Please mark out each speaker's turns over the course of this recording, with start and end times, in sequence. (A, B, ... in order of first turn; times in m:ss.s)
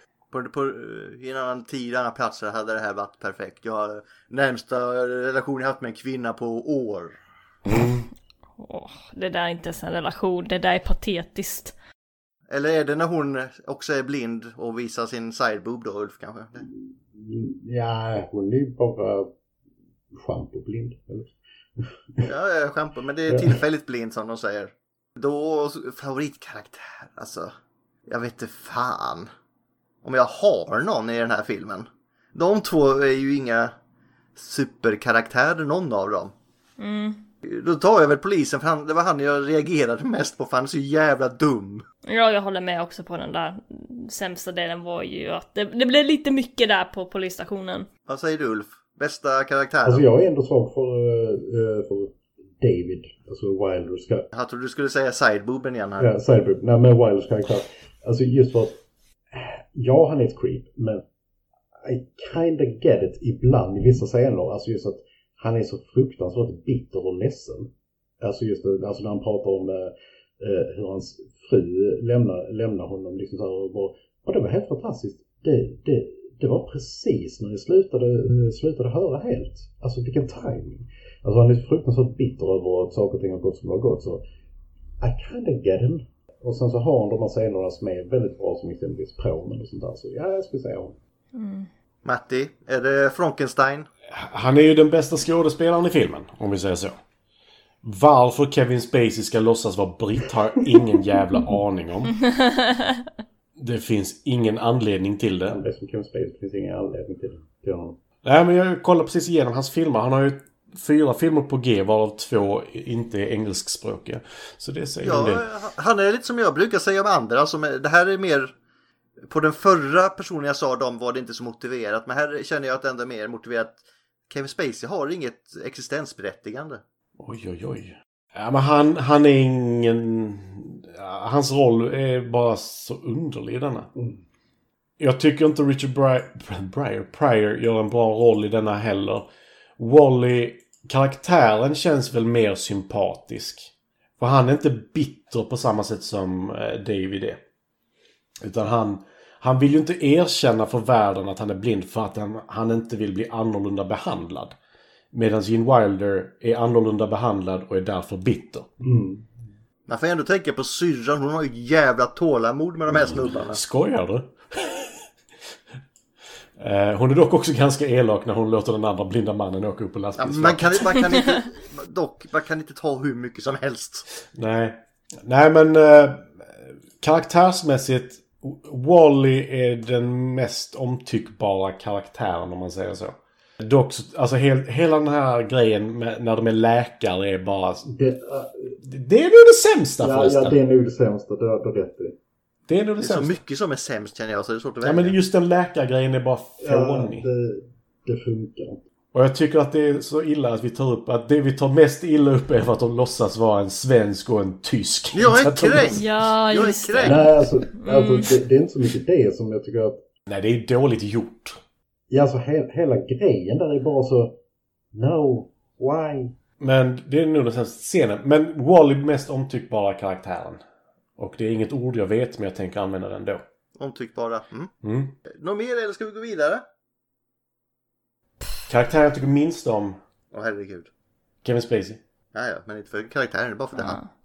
0:00.3-0:07.2 A
0:07.7-0:08.1 B
0:08.6-0:11.7 C
0:12.5-0:16.6 A
0:16.6-0:19.3 D
0:20.2-0:22.3 D
0:22.2-0:27.5 A
0:23.3-0:23.6 D
0:28.1-0:29.3 A
0:30.0-0:33.7 A
0:34.4-0:36.3 A
0:36.8-0:37.2 C
0:37.4-0:41.8 A
0:42.1-0:47.9 C
0:48.1-0:50.1 A
0:49.8-0:54.2 D
0:54.3-0:56.1 A
0:56.0-0:58.8 D
0:59.3-1:01.0 D
1:01.8-1:07.7 D
1:08.2-1:24.2 D
1:25.0-1:31.0 D
1:31.3-1:31.7 C
1:32.0-1:33.9 A
1:34.1-1:37.0 B
1:37.8-1:42.2 B
1:42.2-1:43.1 C
1:43.6-1:45.6 B
1:45.5-1:48.0 D
1:48.2-1:55.4 B
1:55.0-1:58.5 A
1:59.3-2:03.8 A
2:04.3-2:06.8 A
2:07.2-2:13.9 B
2:14.0-2:14.2 D
2:15.0-2:27.4 B
2:28.4-2:34.6 B
2:35.1-2:38.7 B
2:38.8-2:39.5 D
2:39.9-2:43.6 A
2:42.9-2:45.1 B
2:46.6-2:51.1 B
2:50.2-2:54.0 A
2:54.3-3:07.9 B
3:07.9-3:08.8 D
3:08.8-3:10.6 B
3:10.0-3:12.2 D
3:12.7-3:13.4 B
3:13.0-3:15.2 A
3:14.8-3:17.3 B
3:16.6-3:18.8 D
3:19.1-3:26.1 B
3:25.1-3:27.3 A
3:25.9-3:28.3 C
3:27.0-3:30.0 D
3:30.3-3:31.6 B
3:32.1-3:34.4 D
3:34.9-3:36.3 D
3:36.6-3:40.6 B
3:41.2-3:43.4 B
3:43.8-3:44.7 A
3:44.8-3:45.1 B
3:45.3-3:46.6 A
3:48.7-3:50.0 B
3:50.3-3:50.9 A
3:51.4-3:52.0 B
3:52.3-3:54.0 A
3:53.8-3:54.1 C